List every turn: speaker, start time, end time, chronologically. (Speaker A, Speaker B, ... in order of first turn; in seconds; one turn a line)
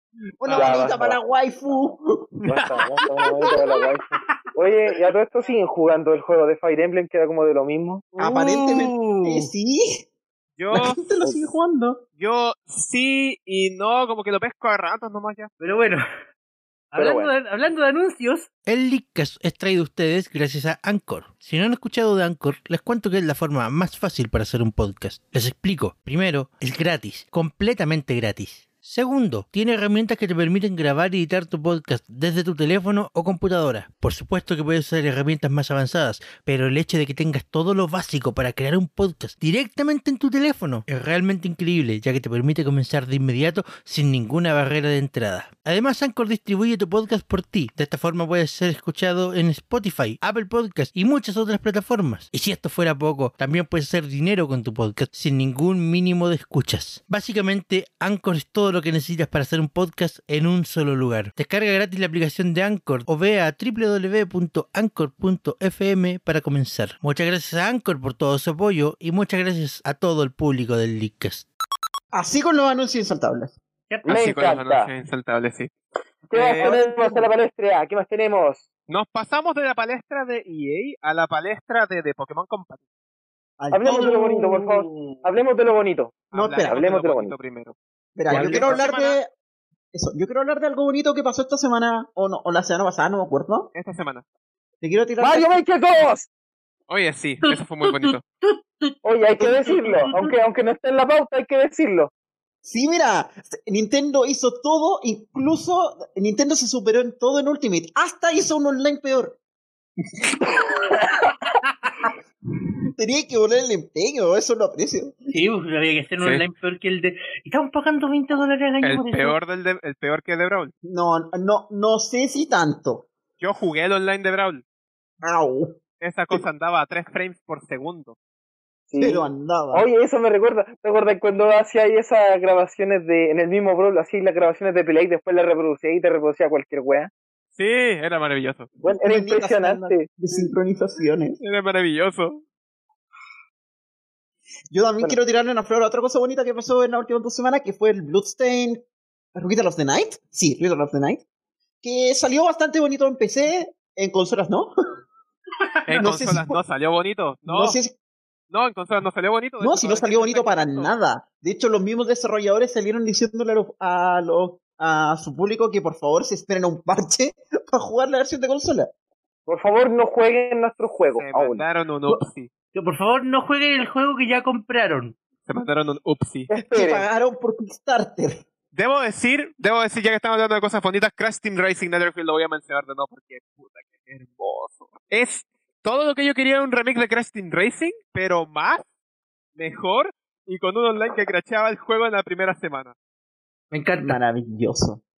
Speaker A: 0.4-2.3
Speaker B: 0.4-0.9
Speaker C: 0.5-1.2
Speaker C: 2.5-8.1
Speaker B: 2.5-3.4
Speaker D: 8.2-9.5
Speaker A: 8.2-10.0
Speaker B: 10.6-11.0
Speaker A: 10.7-12.0
Speaker B: 12.2-15.5
Speaker D: 15.6-16.0
Speaker D: 16.9-18.5
Speaker C: 16.9-17.3
Speaker E: 18.7-71.5
Speaker A: 72.1-73.6
Speaker D: 73.9-74.2
Speaker C: 74.0-74.9
Speaker B: 74.0-75.7
Speaker C: 76.3-78.6
Speaker B: 76.3-77.2
Speaker B: 78.9-82.8
Speaker A: 83.6-85.1
Speaker C: 83.7-87.3
Speaker B: 86.3-87.8
Speaker A: 86.3-86.8
Speaker A: 88.2-89.3
Speaker B: 88.3-89.2
Speaker D: 88.3-88.8
Speaker C: 88.3-88.8
Speaker A: 89.9-93.7
Speaker B: 93.7-94.2
Speaker A: 94.8-95.6
Speaker C: 95.2-96.3
Speaker B: 96.9-98.2
Speaker D: 97.4-100.4
Speaker C: 99.0-102.1
Speaker A: 102.6-109.4
Speaker A: 113.0-115.2
Speaker D: 115.3-119.3
Speaker B: 116.2-116.5
Speaker B: 118.8-120.7
Speaker A: 120.8-123.1
Speaker B: 123.4-124.6
Speaker A: 125.2-125.8
Speaker B: 126.0-128.2
Speaker C: 128.9-137.1
Speaker A: 129.0-129.9
Speaker B: 137.5-138.7
Speaker C: 138.8-140.1
Speaker A: 138.9-141.4
Speaker B: 141.4-142.4
Speaker A: 144.7-148.8
Speaker A: 149.3-151.2
Speaker A: 151.8-154.7
Speaker D: 155.7-156.0
Speaker B: 155.8-157.8
Speaker A: 156.0-156.6
Speaker A: 157.5-157.9
Speaker B: 158.5-160.9
Speaker A: 159.6-168.9
Speaker C: 169.5-171.6
Speaker B: 171.2-172.5
Speaker D: 172.7-175.1
Speaker B: 175.5-176.5
Speaker C: 176.5-177.1
Speaker A: 176.6-178.4
Speaker B: 178.7-188.8
Speaker B: 189.6-192.9
Speaker D: 193.7-194.2
Speaker A: 194.0-195.0